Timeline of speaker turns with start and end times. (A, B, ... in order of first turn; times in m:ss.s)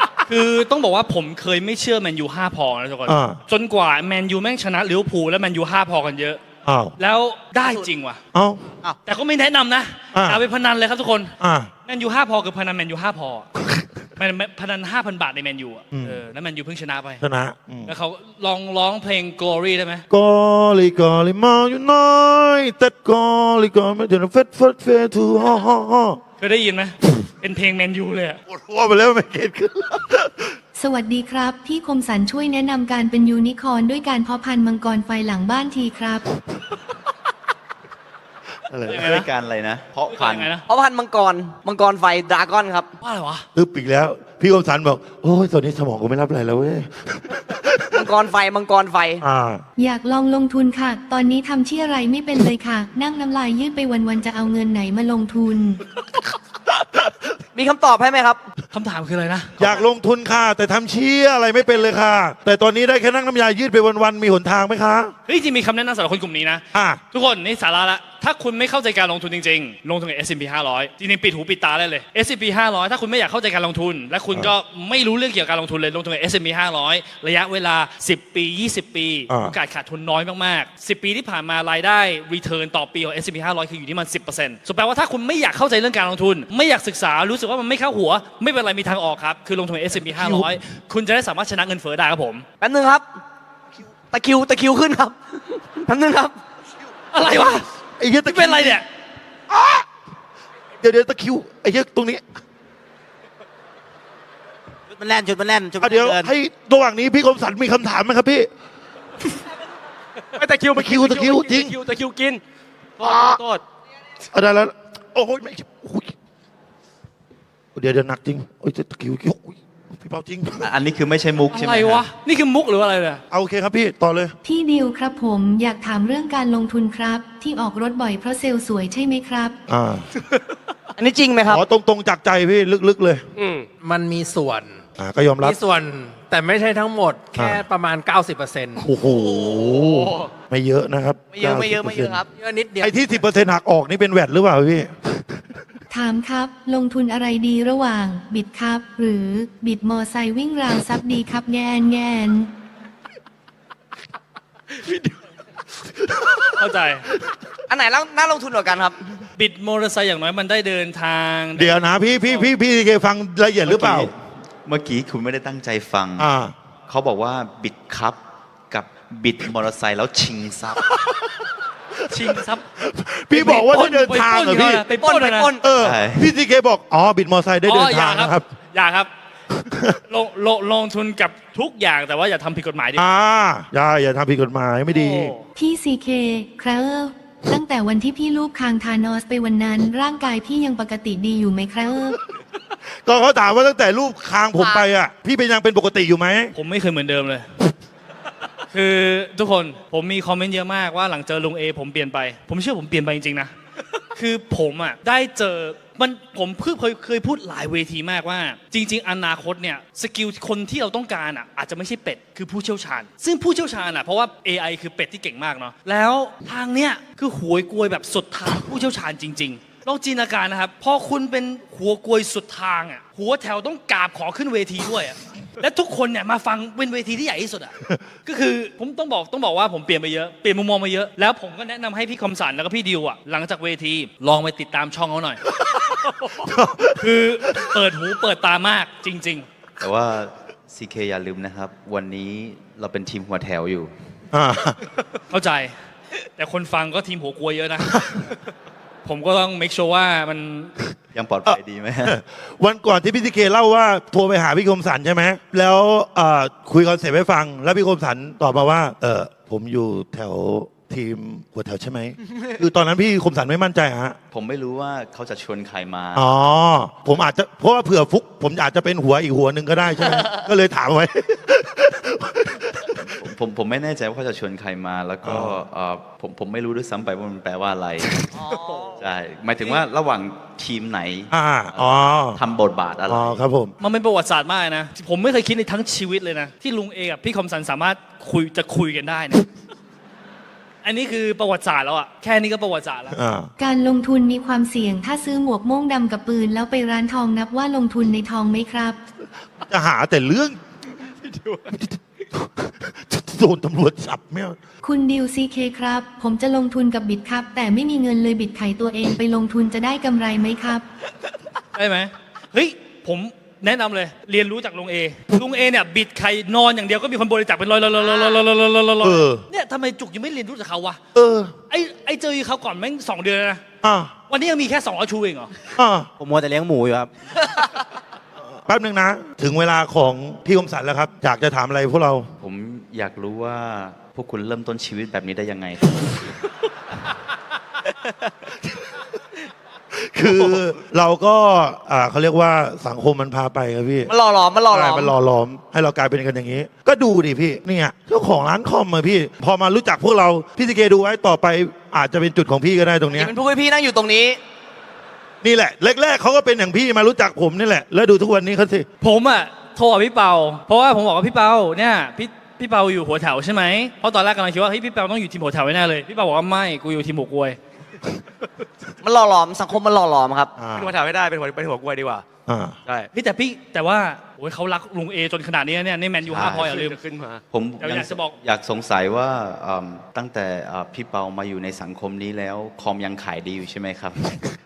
0:00.2-0:06.4 A
0:03.0-0:03.4 B
0:06.6-0:07.0 B
0:07.0-0:08.2 A
0:07.6-0:07.9 C
0:08.3-0:08.7 B
0:09.0-0:11.3 A
0:10.1-0:10.4 B
0:11.4-0:11.7 B
0:11.8-0:13.5 A
0:14.2-0:17.2 A
0:15.9-0:16.2 B
0:17.2-0:17.9 B
0:17.9-0:20.0 A
0:20.1-0:26.2 B
0:26.4-0:28.4 A
0:28.5-0:30.6 B
0:30.8-0:36.2 D
0:38.7-0:39.2 B
0:38.9-0:39.3 A
0:39.0-0:40.6 E
0:40.1-0:40.6 A
0:40.6-0:42.9 C
0:43.0-0:43.4 A
0:43.5-0:48.1 B
0:47.9-0:49.2 C
0:49.2-0:49.6 B
0:49.8-0:55.8 D
0:57.5-0:58.4 C
0:58.7-0:59.8 A
0:59.6-1:05.1 B
1:05.3-1:32.4 A
1:06.7-1:07.0 B
1:19.3-1:19.6 B
1:30.1-1:30.5 B
1:32.6-1:33.1 C
1:34.1-1:36.4 C
1:37.1-1:37.7 A
1:38.0-1:38.8 B
1:38.2-1:38.8 A
1:39.5-1:39.8 B
1:40.8-1:42.2 B
1:44.9-1:46.3 F
1:45.8-1:48.5 B
1:50.3-1:52.4 G
1:50.7-1:51.8 B
1:53.0-1:53.6 G
1:53.0-1:53.4 B
1:54.3-1:56.1 B
1:57.7-2:00.7 B
2:00.6-2:02.1 E
2:01.5-2:03.2 A
2:03.3-2:04.3 B
2:04.4-2:09.6 D
2:09.7-2:10.1 B
2:11.0-2:11.6 C
2:11.5-2:13.2 B
2:13.4-2:13.7 G
2:13.8-2:14.8 H
2:15.0-2:15.6 B
2:15.4-2:18.8 H
2:17.4-2:17.6 B
2:18.8-2:22.2 B
2:19.4-2:20.3 G
2:21.3-2:22.3 C
2:22.4-2:23.0 H
2:22.8-2:25.4 B
2:25.9-2:32.5 D
2:36.5-2:37.1 A
2:37.7-2:39.2 C
2:39.4-2:42.5 A
2:41.6-2:44.1 B
2:43.6-2:44.1 E
2:44.6-2:46.3 E
2:46.2-2:46.5 B
2:46.9-2:50.8 E
2:50.9-2:51.2 B
2:52.1-2:52.6 A
2:52.2-2:54.8 B
2:53.3-2:55.5 A
2:55.0-2:55.7 C
2:55.6-2:58.4 B
2:55.8-2:56.3 E
2:57.7-2:59.1 A
2:59.5-3:00.0 B
3:00.1-3:03.0 A
3:03.0-3:05.3 B
3:05.6-3:12.2 D
3:13.0-3:16.5 B
3:16.5-3:17.5 A
3:18.7-3:23.5 A
3:24.1-3:55.4 A
3:56.4-3:57.0 B
3:57.0-3:59.5 A
3:59.8-4:03.9 E
4:04.3-4:04.8 B
4:05.3-4:05.7 A
4:06.4-4:08.1 A
4:09.0-4:10.7 A
4:11.1-4:12.2 E
4:11.4-4:24.2 B
4:24.3-4:26.3 E
4:26.2-4:33.2 B
4:33.2-4:38.3 E
4:35.2-4:35.6 B
4:38.3-4:39.0 C
4:38.5-4:39.0 G
4:39.0-4:43.4 E
4:41.3-4:42.4 B
4:43.1-4:43.7 B
4:43.8-4:49.4 A
4:50.8-4:53.2 A
4:53.1-4:53.5 B
4:53.6-4:59.0 D
4:59.7-5:00.6 B
5:01.2-5:01.7 G
5:01.7-5:04.6 B
5:04.8-5:10.8 D
5:11.7-5:21.0 A
5:18.1-5:18.4 C
5:19.0-5:19.4 B
5:21.1-5:21.5 B
5:21.7-5:23.6 A
5:23.8-5:24.1 B
5:24.3-5:25.5 A
5:25.8-5:26.1 B
5:26.2-5:27.1 F
5:28.6-5:32.3 B
5:32.4-5:36.0 E
5:39.9-5:44.1 B
5:44.1-5:45.1 C
5:44.7-5:53.3 B
5:53.1-5:54.4 C
5:55.4-5:58.9 B
5:59.0-6:07.6 A
6:09.0-6:10.5 C
6:10.6-6:10.9 B
6:10.7-6:12.2 G
6:12.5-6:12.8 B
6:12.8-6:13.1 G
6:13.1-6:17.0 A
6:16.3-6:16.6 E
6:16.4-6:17.4 G
6:17.5-6:24.3 E
6:17.8-6:18.4 A